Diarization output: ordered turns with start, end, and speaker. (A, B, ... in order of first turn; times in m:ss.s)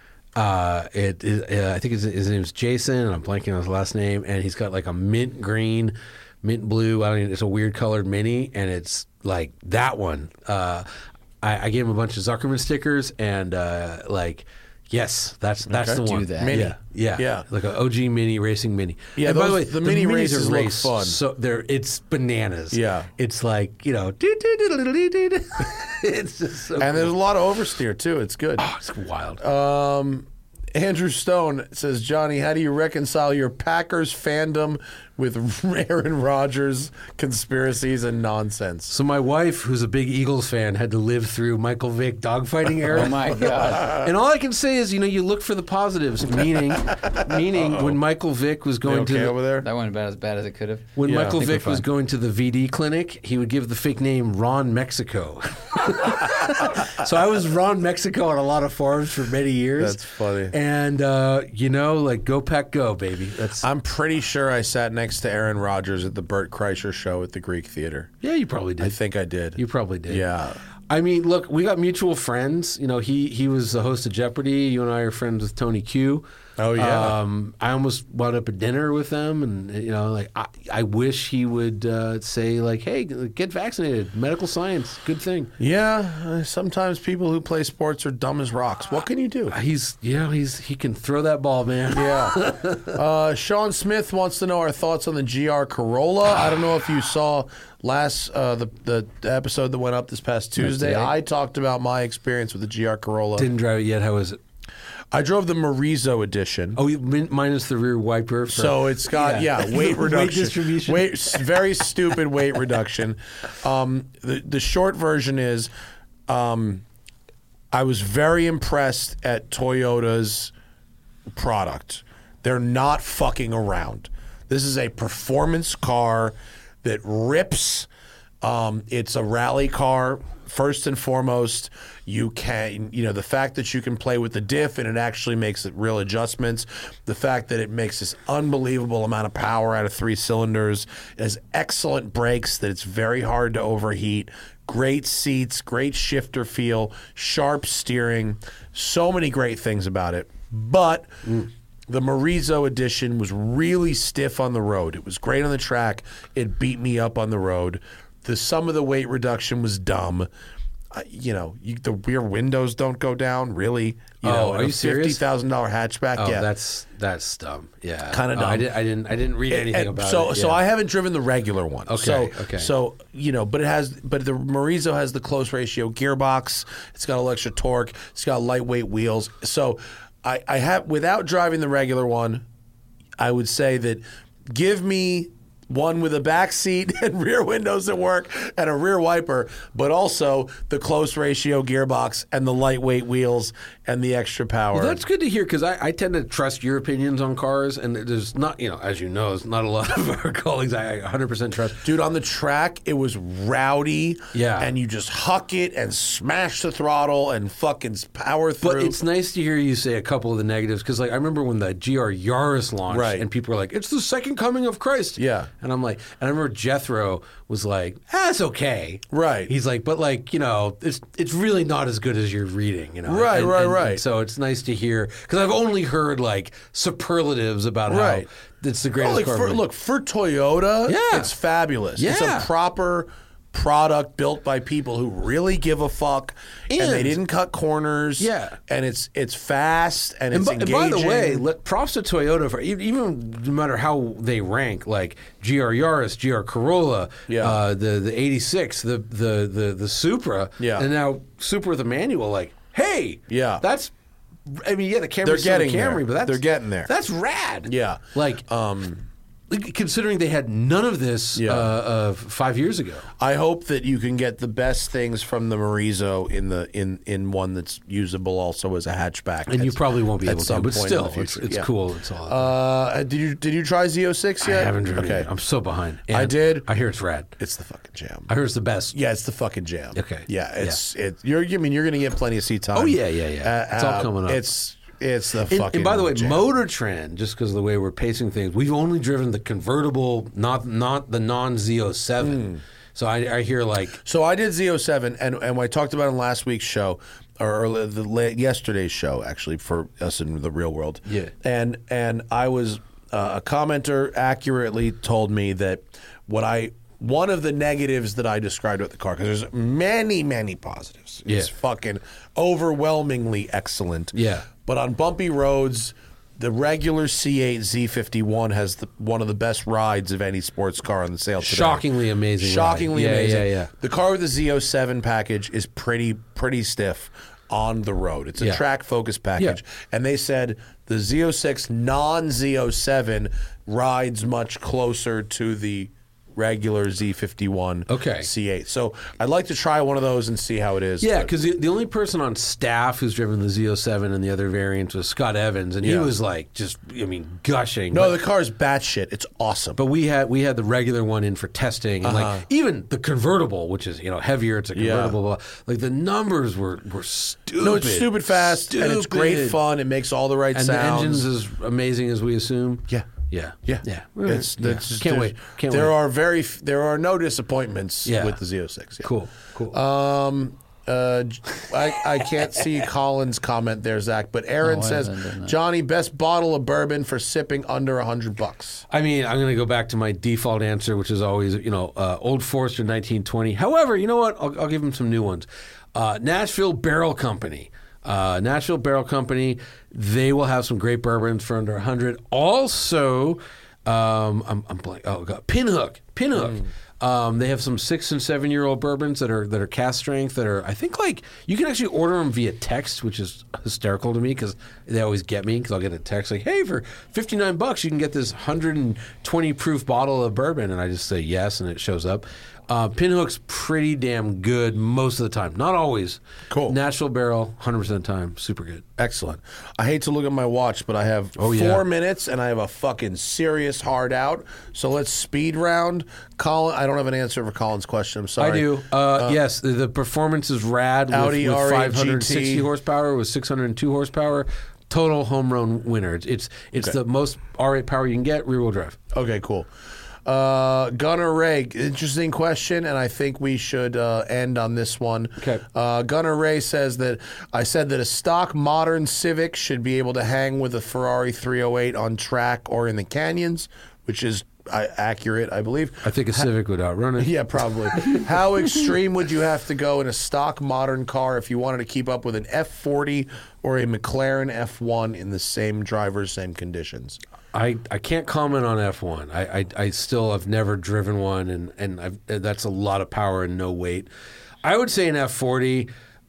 0:00.4-0:10.8 A
0:11.4-0:27.1 A
0:15.7-0:17.4 B
0:16.0-0:16.6 C
0:19.2-0:21.2 B
0:22.7-0:23.1 B
0:26.8-0:28.6 B
0:28.6-0:29.4 A
0:29.4-0:38.9 B
0:38.9-0:49.4 A
0:42.9-0:44.0 C
0:43.5-0:44.1 B
0:47.0-0:48.0 B
0:48.8-0:49.7 B
0:49.6-0:51.8 C
0:51.0-1:03.7 A
0:51.0-0:51.4 B
0:59.8-1:00.5 B
1:03.6-1:08.1 B
1:08.2-1:09.0 A
1:08.8-1:10.6 B
1:09.6-1:10.2 A
1:10.9-1:25.5 A
1:16.6-1:17.2 B
1:25.6-1:29.5 B
1:29.5-1:33.0 A
1:31.9-1:43.5 B
1:40.6-1:41.0 A
1:43.4-1:44.4 A
1:45.1-1:46.8 B
1:46.8-1:51.5 A
1:48.5-1:55.7 B
1:56.3-1:56.8 B
1:57.7-2:00.5 B
2:01.3-2:07.9 B
2:08.4-2:40.3 B
2:40.9-2:46.5 B
2:44.2-2:45.2 A
2:46.2-2:50.6 A
2:48.1-2:48.7 B
2:49.5-3:02.4 B
2:51.9-2:52.7 A
3:03.2-3:15.0 B
3:14.7-3:21.9 A
3:21.8-3:29.0 B
3:24.3-3:24.7 A
3:28.6-3:49.6 A
3:32.9-3:33.3 B
3:35.2-3:35.5 B
3:39.1-3:39.5 B
3:43.0-3:44.0 B
3:47.9-3:48.3 B
3:49.0-4:01.4 B
3:50.9-3:51.3 A
3:52.0-3:52.5 A
3:56.7-3:57.2 A
3:58.2-3:58.6 A
4:00.3-4:13.9 A
4:07.3-4:07.6 B
4:10.6-4:10.9 B
4:13.3-4:13.6 B
4:14.5-4:18.4 A
4:15.2-4:16.9 B
4:17.6-4:19.0 B
4:19.5-4:23.1 A
4:21.4-4:21.7 B
4:23.2-4:31.7 B
4:29.5-4:32.5 A
4:32.2-4:35.3 B
4:34.4-4:37.3 A
4:36.1-4:36.7 B
4:37.4-4:38.3 B
4:38.3-4:38.9 A
4:38.9-4:46.4 B
4:39.9-4:40.8 A
4:42.7-4:44.4 A
4:45.5-4:54.0 A
4:52.2-4:52.6 B
4:54.0-5:21.8 B
5:01.1-5:01.3 A
5:11.3-5:11.5 A
5:14.1-5:14.5 A
5:21.4-5:23.7 A
5:22.4-5:41.3 B
5:37.9-5:38.3 A
5:41.0-5:48.1 A
5:45.8-5:46.1 B
5:47.9-5:49.8 B
5:49.8-5:59.6 A
5:52.0-5:52.4 B
5:54.7-5:55.2 B
5:57.6-6:01.3 B
6:00.5-6:05.9 A
6:03.6-6:09.1 B
6:08.0-6:08.4 A
6:09.0-6:09.8 A
6:09.7-6:18.8 B
6:14.6-6:15.5 C
6:18.9-6:58.9 A
6:56.5-6:56.8 B
6:59.0-7:09.4 B
7:01.4-7:01.8 A
7:08.4-7:19.0 A
7:11.1-7:12.7 B
7:19.1-7:19.7 B
7:20.2-7:36.5 B
7:25.4-7:25.6 A
7:36.0-7:38.2 A
7:37.2-7:47.2 B
7:47.5-7:54.1 A
7:54.6-7:55.9 A